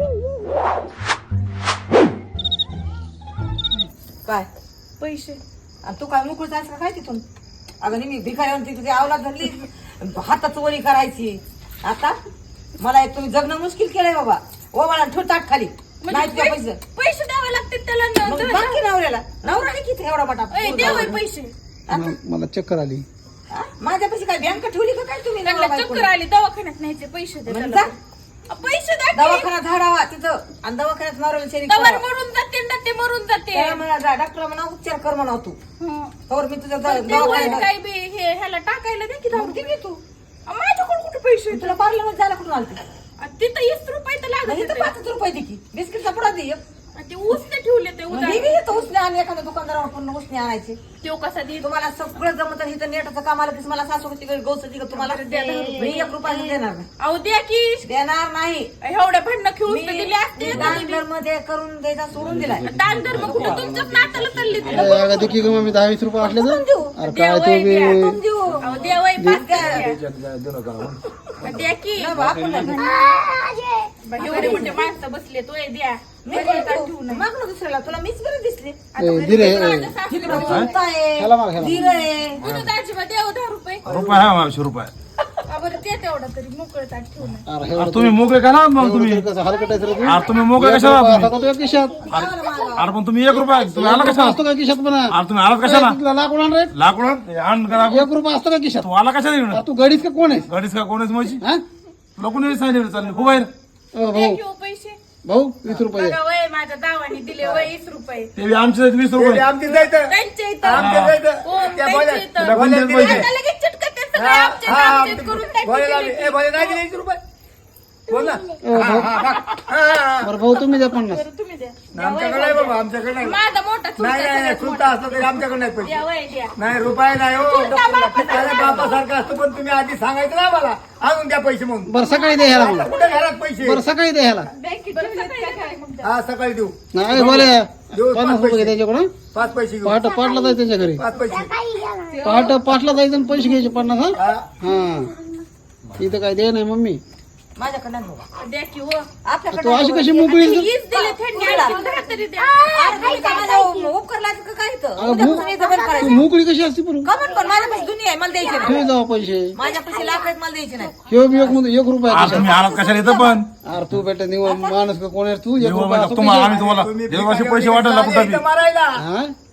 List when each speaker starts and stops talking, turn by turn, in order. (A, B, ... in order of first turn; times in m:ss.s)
0:05.0-0:05.4 A
0:05.8-0:07.2 B
0:07.8-0:12.2 B
0:12.8-0:16.8 B
0:16.0-0:18.8 A
0:18.2-0:21.2 B
0:19.4-0:19.8 A
0:20.5-0:21.5 A
0:20.7-0:21.2 C
0:21.9-0:22.2 B
0:21.9-0:23.0 C
0:23.5-0:26.1 B
0:25.4-0:28.0 A
0:27.5-0:27.9 B
0:28.5-0:29.5 A
0:29.1-0:32.0 B
0:31.7-0:33.8 A
0:33.5-0:35.6 B
0:35.8-0:36.1 A
0:36.3-0:37.7 B
0:36.8-0:39.7 A
0:39.3-0:40.0 B
0:40.5-0:41.8 A
0:41.5-0:42.8 B
0:43.2-0:44.9 A
0:44.4-0:46.6 B
0:47.0-0:48.9 A
0:48.1-0:50.8 B
0:51.0-0:51.7 A
0:51.6-0:56.9 B
0:54.9-0:56.1 A
0:57.0-0:57.9 A
0:57.9-0:58.7 B
0:58.8-1:01.0 A
0:59.7-1:03.7 B
1:02.5-1:05.4 A
1:02.8-1:05.7 D
1:04.7-1:08.2 C
1:06.2-1:07.0 B
1:07.1-1:08.0 A
1:07.9-1:08.7 B
1:08.6-1:10.0 A
1:09.2-1:09.4 C
1:09.3-1:09.9 B
1:09.8-1:11.0 D
1:11.4-1:13.1 A
1:12.0-1:12.9 B
1:12.2-1:12.7 D
1:14.0-1:17.3 A
1:14.2-1:14.8 B
1:16.2-1:18.8 B
1:18.9-1:20.7 A
1:19.0-1:20.0 C
1:20.0-1:22.4 B
1:20.3-1:20.7 D
1:21.2-1:21.8 C
1:21.8-1:23.8 A
1:22.4-1:22.7 D
1:23.8-1:24.9 D
1:23.8-1:24.3 E
1:25.5-1:27.4 A
1:27.5-1:28.2 C
1:27.8-1:29.2 D
1:28.8-1:32.1 C
1:30.0-1:31.3 D
1:32.1-1:32.9 B
1:32.1-1:34.4 D
1:33.3-1:36.7 C
1:35.1-1:36.0 D
1:36.8-1:38.1 D
1:37.8-1:38.9 C
1:38.8-1:39.6 D
1:39.5-1:40.5 C
1:40.5-1:41.4 D
1:42.2-1:43.5 D
1:43.9-1:44.4 C
1:44.1-1:45.0 A
1:45.2-1:46.2 C
1:45.7-1:48.3 A
1:47.4-1:47.7 E
1:48.4-1:49.4 D
1:49.1-1:53.3 E
1:49.6-1:50.9 A
1:50.8-1:51.2 D
1:51.4-1:56.8 A
1:52.4-1:53.3 D
1:54.2-1:57.2 E
1:58.1-2:00.3 E
1:58.6-1:59.1 C
1:59.2-1:59.6 A
2:00.2-2:01.2 C
2:00.8-2:06.6 A
2:01.9-2:03.4 E
2:04.0-2:06.0 E
2:06.6-2:13.8 E
2:07.4-2:08.8 A
2:07.5-2:08.9 B
2:11.9-2:12.9 C
2:12.0-2:13.2 A
2:13.6-2:14.5 C
2:14.6-2:16.1 A
2:16.0-2:18.7 E
2:16.9-2:19.1 C
2:19.3-2:20.1 E
2:19.8-2:21.0 C
2:21.0-2:21.6 E
2:21.9-2:22.6 A
2:22.2-2:25.2 C
2:24.2-2:24.5 E
2:26.0-2:27.0 C
2:27.6-2:28.2 B
2:28.4-2:29.1 A
2:29.2-2:31.8 B
2:29.5-2:30.7 C
2:30.3-2:33.6 A
2:32.7-2:36.3 B
2:35.0-2:37.1 C
2:37.0-2:38.9 B
2:38.6-2:39.6 C
2:39.6-2:41.0 B
2:41.1-2:42.6 C
2:42.1-2:43.5 D
2:43.6-2:46.6 C
2:44.4-2:44.8 B
2:45.6-2:48.4 D
2:46.4-2:49.0 E
2:49.0-2:49.3 C